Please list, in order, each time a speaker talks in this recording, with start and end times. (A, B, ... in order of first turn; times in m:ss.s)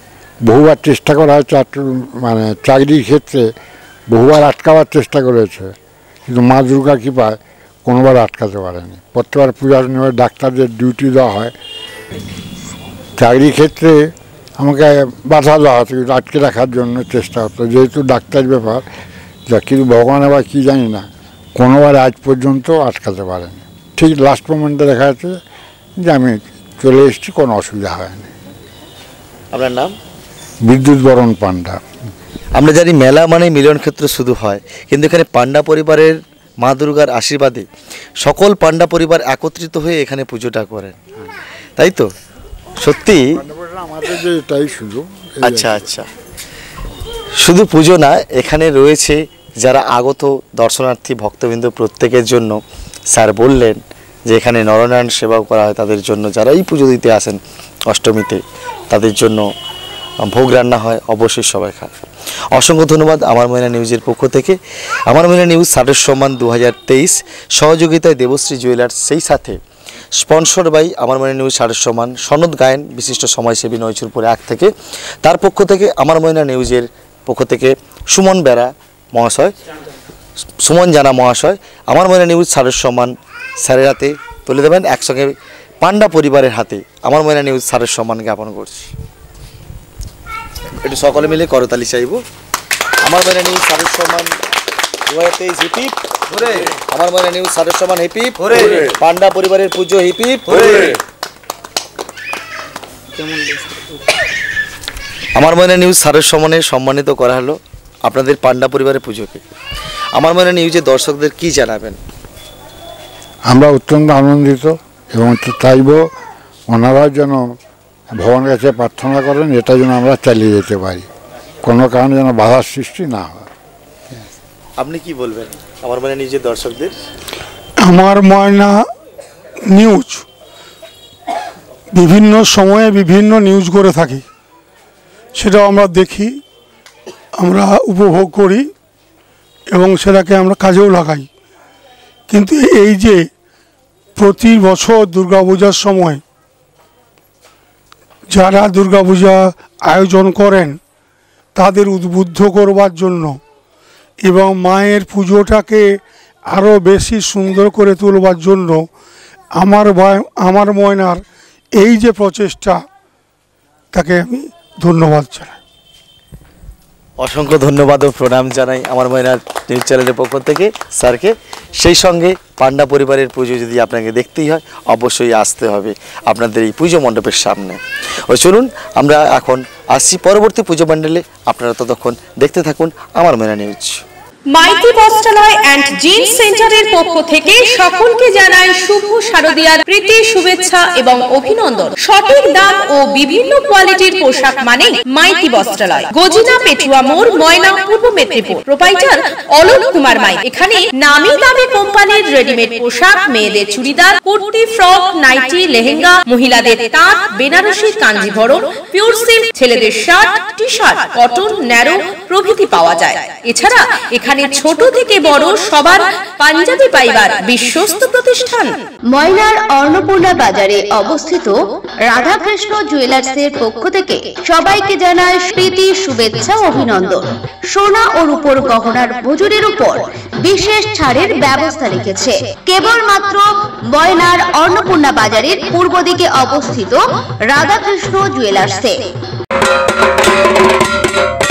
0:00.4-0:03.4 A
0:04.1-0:05.7 A
0:06.3-0:11.5 A
0:13.2-0:18.8 A
0:19.5-0:25.3 A
0:26.0-0:28.3 A
0:29.5-0:29.9 B
0:30.6-0:31.8 A
0:32.5-0:37.7 B
0:38.2-0:41.0 B
0:41.8-0:42.1 B
0:42.8-0:43.4 B
0:43.3-0:45.9 A
0:45.4-0:46.1 B
0:47.4-0:52.6 B
0:53.1-0:59.4 B
1:00.2-1:01.9 B
1:02.5-1:04.6 B
1:05.1-1:09.6 B
1:10.2-1:14.7 B
1:15.2-1:19.5 B
1:20.6-1:28.9 B
1:30.8-1:32.2 B
1:33.0-1:34.3 B
1:35.1-1:41.0 B
1:45.4-1:49.4 B
1:50.1-1:52.0 B
1:53.5-1:56.0 A
1:56.7-1:57.4 A
1:58.2-2:01.1 A
2:01.6-2:03.5 A
2:04.8-2:07.0 B
2:07.8-2:08.8 C
2:09.7-2:10.2 C
2:11.9-2:14.2 C
2:15.3-2:16.4 C
2:17.4-2:18.7 C
2:19.7-2:21.3 C
2:22.3-2:23.3 C
2:24.2-2:26.2 C
2:28.3-2:30.8 C
2:31.5-2:33.4 C
2:34.2-2:38.8 C
2:39.5-2:41.2 C
2:41.8-2:42.8 C
2:43.9-2:45.5 C
2:47.2-2:57.8 B
2:58.3-3:04.0 B
3:04.5-3:38.7 D
3:39.1-3:59.1 E